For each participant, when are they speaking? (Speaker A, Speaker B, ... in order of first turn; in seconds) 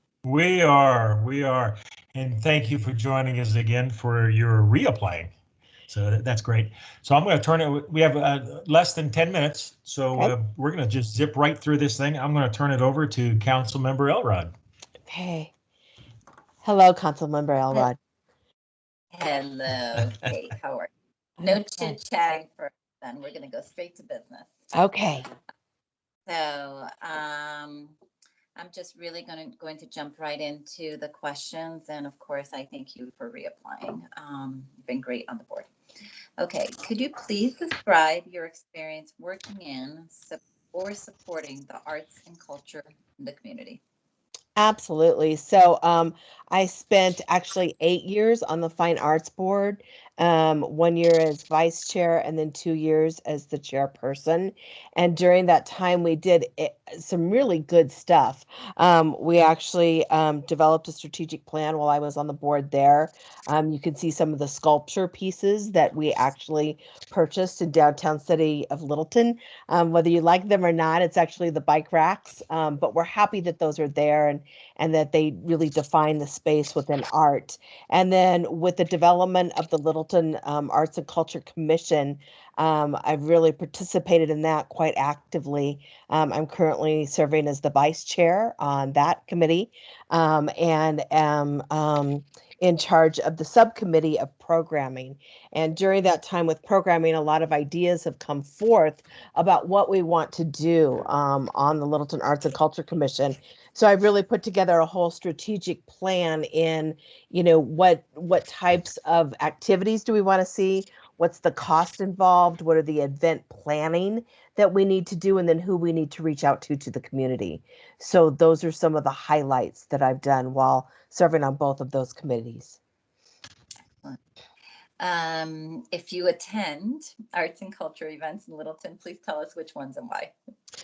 Speaker A: 0.2-5.3, 5.9-14.5
Speaker B: 15.1-15.5, 16.6-18.0, 21.4-22.0, 24.7-25.3, 44.6-122.8
Speaker C: 19.1-24.5, 26.3-27.9, 28.6-35.7, 36.4-43.8, 125.0-130.3